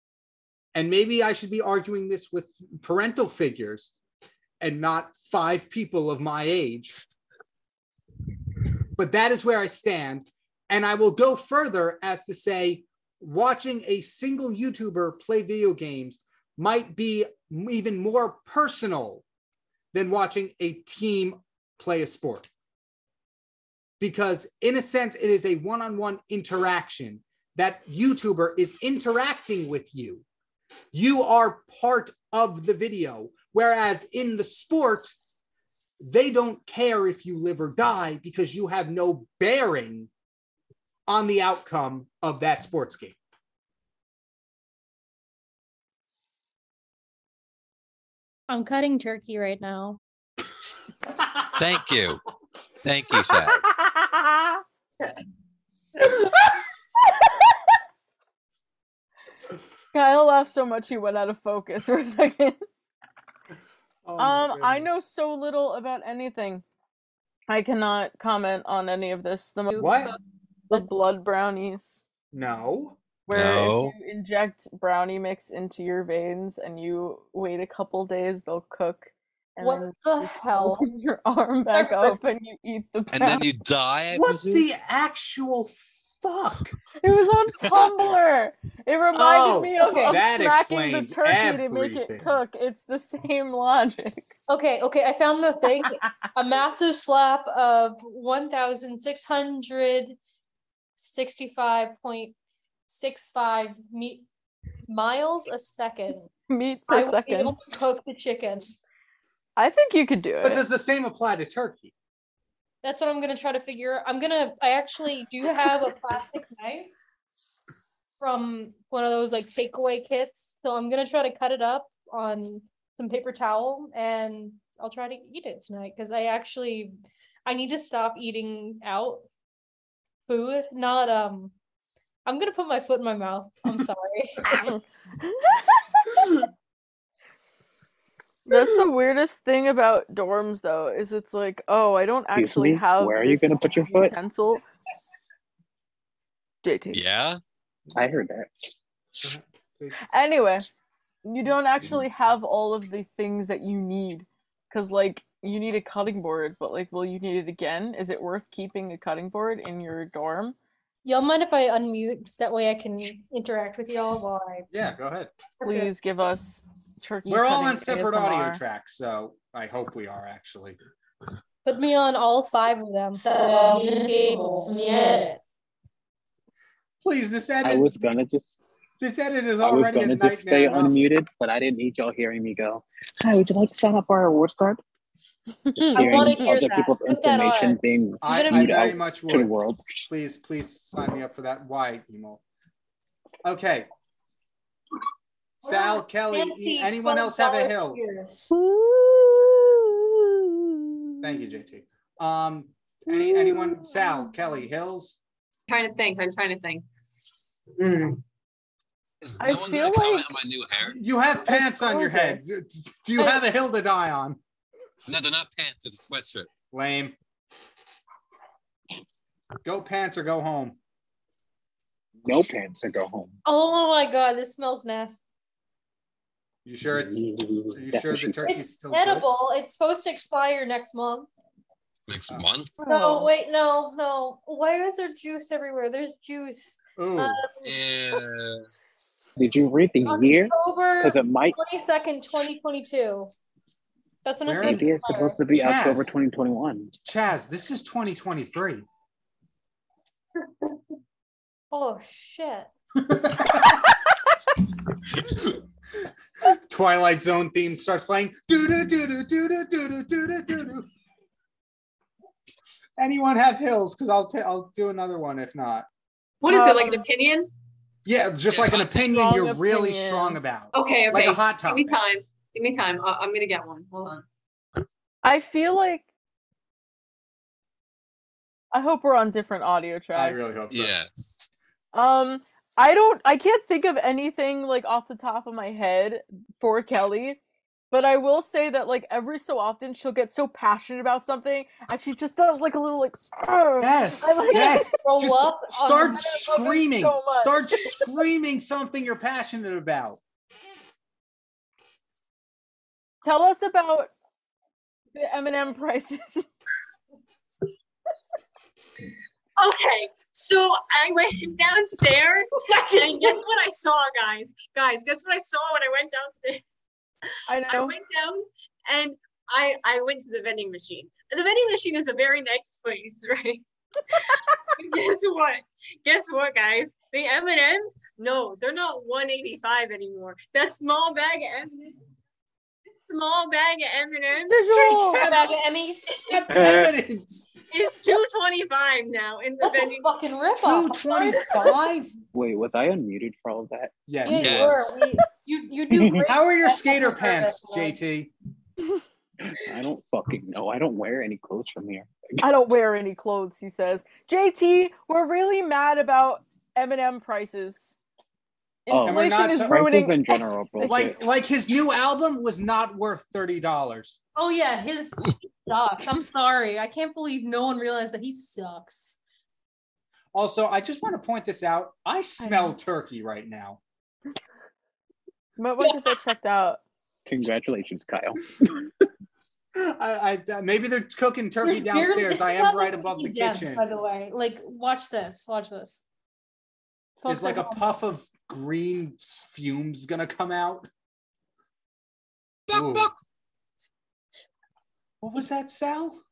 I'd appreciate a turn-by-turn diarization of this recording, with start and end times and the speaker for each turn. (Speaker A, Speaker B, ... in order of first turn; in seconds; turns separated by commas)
Speaker A: 0.7-3.9, Speaker A: 4.6-6.9, Speaker A: 8.9-19.2, Speaker A: 19.9-22.5, Speaker A: 24.0-30.2, Speaker A: 30.9-35.1, Speaker A: 36.0-40.1, Speaker A: 41.1-43.2, Speaker B: 48.5-50.0, Speaker C: 51.6-52.2, Speaker C: 52.8-53.8, Speaker D: 54.1-54.5, Speaker D: 59.9-62.6, Speaker A: 64.0-64.9, Speaker D: 64.2-66.6, Speaker D: 67.5-70.1, Speaker B: 69.8-70.1, Speaker A: 69.8-70.1, Speaker D: 70.7-72.0, Speaker A: 72.3-73.0, Speaker D: 73.3-83.5, Speaker C: 73.3-73.9, Speaker B: 79.6-80.9, Speaker B: 81.7-82.2, Speaker C: 83.1-84.7, Speaker A: 84.1-86.8, Speaker D: 87.0-94.3, Speaker A: 89.1-92.3, Speaker B: 89.8-90.2, Speaker B: 94.5-100.2, Speaker B: 101.0-102.3, Speaker B: 102.9-104.2, Speaker B: 104.9-106.3, Speaker D: 106.5-107.5, Speaker B: 106.9-108.7, Speaker D: 109.6-110.6, Speaker A: 110.4-111.9, Speaker B: 112.8-116.9, Speaker B: 118.2-126.9, Speaker B: 127.5-129.2, Speaker B: 130.3-131.5, Speaker B: 132.2-134.6, Speaker D: 134.4-136.3, Speaker D: 138.4-144.6, Speaker E: 142.3-144.1, Speaker D: 146.6-147.0, Speaker C: 146.9-147.4, Speaker E: 147.9-148.7, Speaker A: 149.2-150.0, Speaker D: 150.1-150.7, Speaker D: 151.2-160.6, Speaker B: 161.0-164.7, Speaker A: 164.7-165.3, Speaker B: 165.6-165.9, Speaker D: 165.6-168.6, Speaker A: 167.3-170.8, Speaker B: 171.6-175.4, Speaker A: 177.0-178.1, Speaker E: 177.6-178.6, Speaker A: 179.0-181.0, Speaker E: 179.6-184.8, Speaker D: 185.7-186.4, Speaker E: 185.7-190.1, Speaker B: 185.9-188.8, Speaker A: 188.2-189.5, Speaker A: 190.1-192.4, Speaker A: 193.4-193.9, Speaker A: 195.6-198.0, Speaker B: 195.6-198.5, Speaker D: 198.5-201.3, Speaker A: 201.2-205.2, Speaker D: 203.1-204.2, Speaker F: 205.7-206.8, Speaker F: 207.8-208.2, Speaker C: 209.2-211.0, Speaker D: 209.4-210.3, Speaker A: 210.8-214.4, Speaker D: 211.4-212.4, Speaker C: 215.1-216.5, Speaker A: 216.7-217.2, Speaker A: 219.6-220.8, Speaker E: 222.2-223.4, Speaker B: 223.4-225.2, Speaker A: 226.6-229.3, Speaker E: 226.9-228.4, Speaker B: 228.4-231.3, Speaker C: 232.1-232.8, Speaker B: 232.8-237.7, Speaker D: 232.8-233.3, Speaker A: 237.0-237.4, Speaker C: 237.6-238.6, Speaker E: 239.4-241.6, Speaker B: 240.1-243.3, Speaker B: 244.2-245.4, Speaker A: 244.4-244.8, Speaker E: 244.6-246.9, Speaker A: 245.5-246.1, Speaker A: 247.0-248.8, Speaker B: 251.7-252.7, Speaker A: 253.0-253.9, Speaker A: 256.4-260.9, Speaker A: 263.0-265.9, Speaker F: 266.4-267.5, Speaker D: 266.5-267.0, Speaker A: 268.0-272.0, Speaker C: 268.5-269.0, Speaker D: 269.0-270.4, Speaker F: 270.7-274.2, Speaker D: 275.2-276.1, Speaker D: 278.7-280.4, Speaker A: 280.1-280.9, Speaker C: 280.7-281.5, Speaker D: 281.9-287.4, Speaker D: 287.9-294.9, Speaker A: 293.8-300.2, Speaker B: 294.2-296.8, Speaker D: 296.0-298.1, Speaker D: 303.2-304.1, Speaker D: 305.1-306.5, Speaker F: 309.6-316.6, Speaker D: 317.5-317.9, Speaker F: 317.6-332.0, Speaker F: 333.0-334.6, Speaker D: 334.5-335.2, Speaker A: 334.7-337.5, Speaker B: 335.1-336.6, Speaker E: 336.5-336.9, Speaker F: 337.7-340.1, Speaker B: 339.6-341.8, Speaker A: 340.6-342.1, Speaker E: 342.3-344.1, Speaker A: 344.1-344.9, Speaker B: 344.2-348.0, Speaker C: 344.3-344.8, Speaker E: 345.9-346.2, Speaker A: 346.2-348.3, Speaker E: 349.4-352.4, Speaker D: 352.4-357.9, Speaker D: 358.9-361.1, Speaker E: 358.9-361.2, Speaker A: 359.0-359.9, Speaker A: 360.8-364.2, Speaker B: 364.4-369.2, Speaker A: 370.3-373.8, Speaker D: 372.4-372.7, Speaker D: 375.6-376.8, Speaker B: 375.8-376.1, Speaker E: 377.2-378.9, Speaker A: 379.7-383.9, Speaker B: 381.6-386.0, Speaker B: 387.2-387.9, Speaker A: 387.3-390.9, Speaker C: 392.7-393.1, Speaker A: 392.7-393.1, Speaker A: 395.2-396.2